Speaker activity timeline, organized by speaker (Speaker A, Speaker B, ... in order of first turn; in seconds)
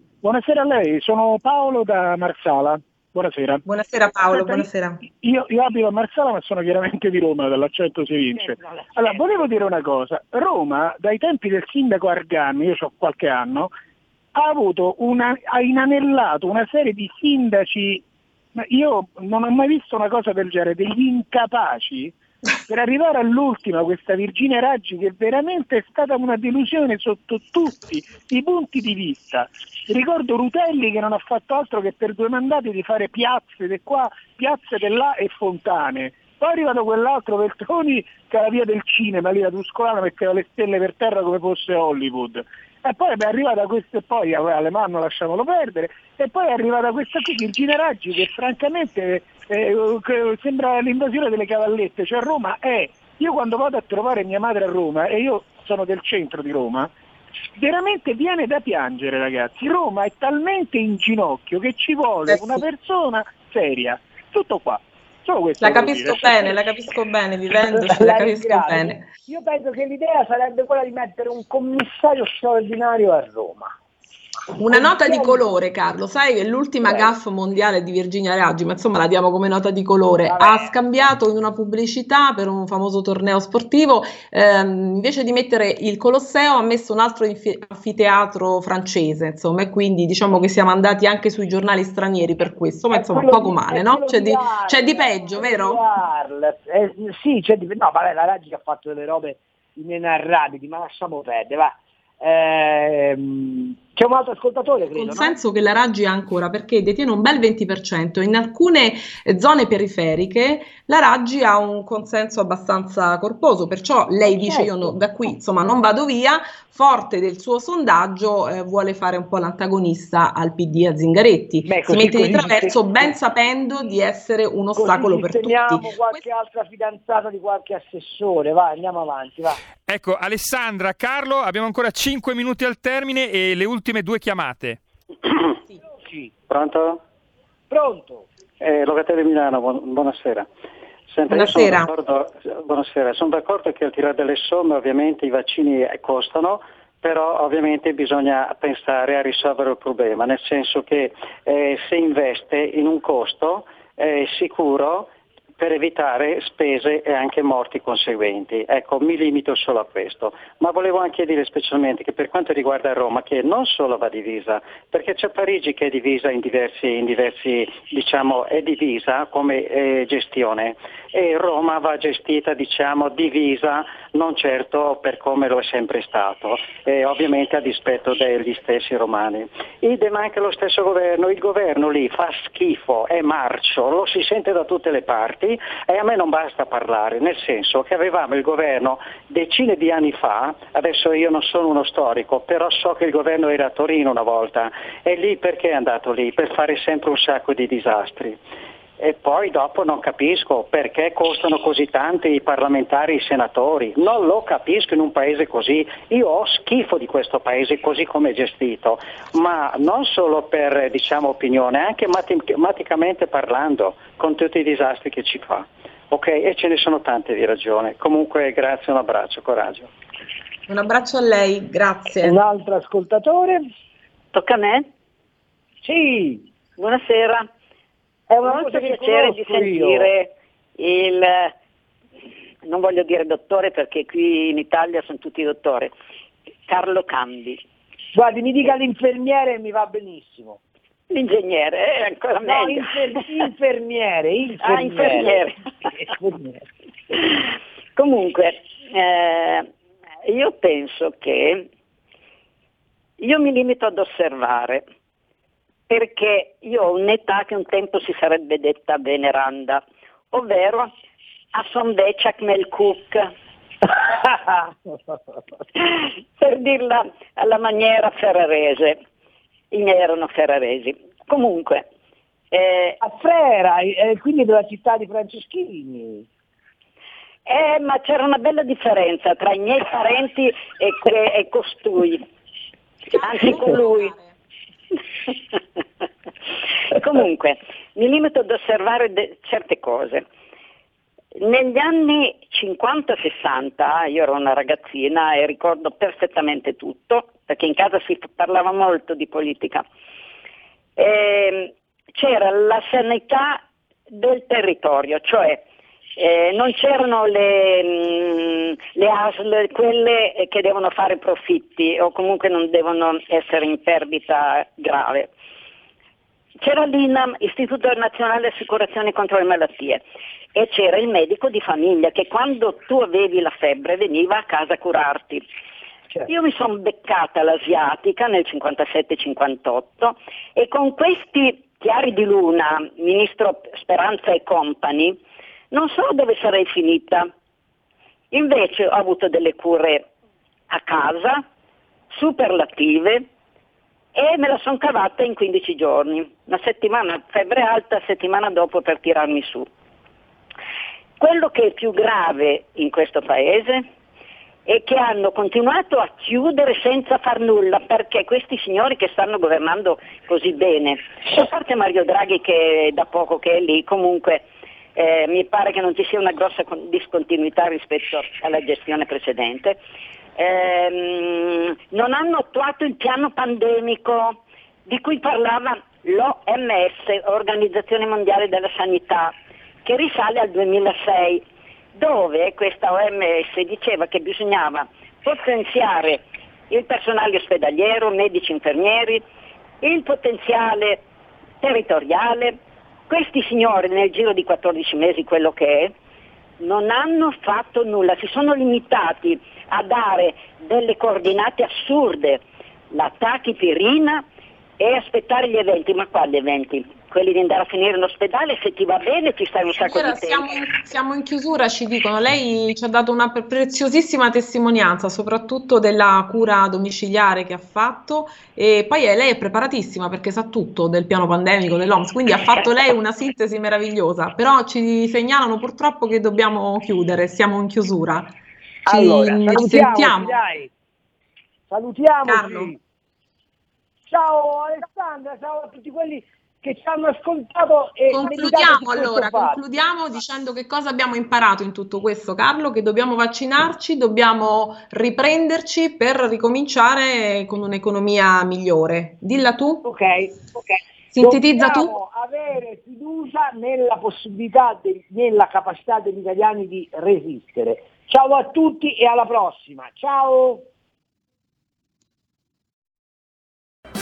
Speaker A: 0.2-3.6, 4.3-4.7, 5.2-13.7, 14.3-18.0, 18.6-22.1, 22.7-56.9, 57.6-66.5
Speaker B: 3.6-5.0, 62.3-62.6, 65.6-69.0, 74.6-95.8, 104.9-126.2, 141.3-141.9, 220.7-222.4, 283.1-284.4, 409.8-428.3, 428.9-430.4, 432.2-432.7, 438.1-449.9, 451.1-451.9
Speaker C: 8.3-9.5, 67.7-73.7, 74.7-75.5, 76.8-77.1, 80.3-81.1, 92.9-105.4, 114.3-114.9, 121.7-123.1, 124.8-129.6, 136.0-136.3, 137.7-138.3, 222.2-223.6, 225.8-226.5, 228.3-230.1, 238.1-240.6, 242.5-246.6, 263.9-265.1, 273.0-276.3, 428.9-430.7, 431.7-432.8, 434.1-439.6, 449.8-460.6
Speaker D: 129.9-134.8
Speaker E: 136.5-137.0, 138.6-140.4, 141.1-198.4, 199.0-219.9
Speaker F: 224.3-224.9, 226.8-227.5, 228.4-231.5, 232.6-235.9, 236.7-237.6, 241.1-243.0, 244.6-245.6, 247.9-249.7, 250.3-251.7, 253.2-254.8, 255.9-260.9, 261.5-263.3, 265.8-269.0, 269.7-271.9, 272.5-273.0, 277.4-282.2, 283.2-284.1, 286.9-290.3, 291.4-299.8, 301.0-305.6, 306.2-315.3, 316.6-320.0, 320.6-325.4, 326.3-335.2, 335.7-337.3, 338.3-340.1, 340.7-341.4, 342.1-343.3, 344.1-349.7, 351.2-353.9, 354.6-364.4, 364.9-369.8, 370.4-379.3, 379.8-381.4, 381.9-389.2, 389.8-391.0, 391.6-395.9, 396.6-404.3, 404.8-410.5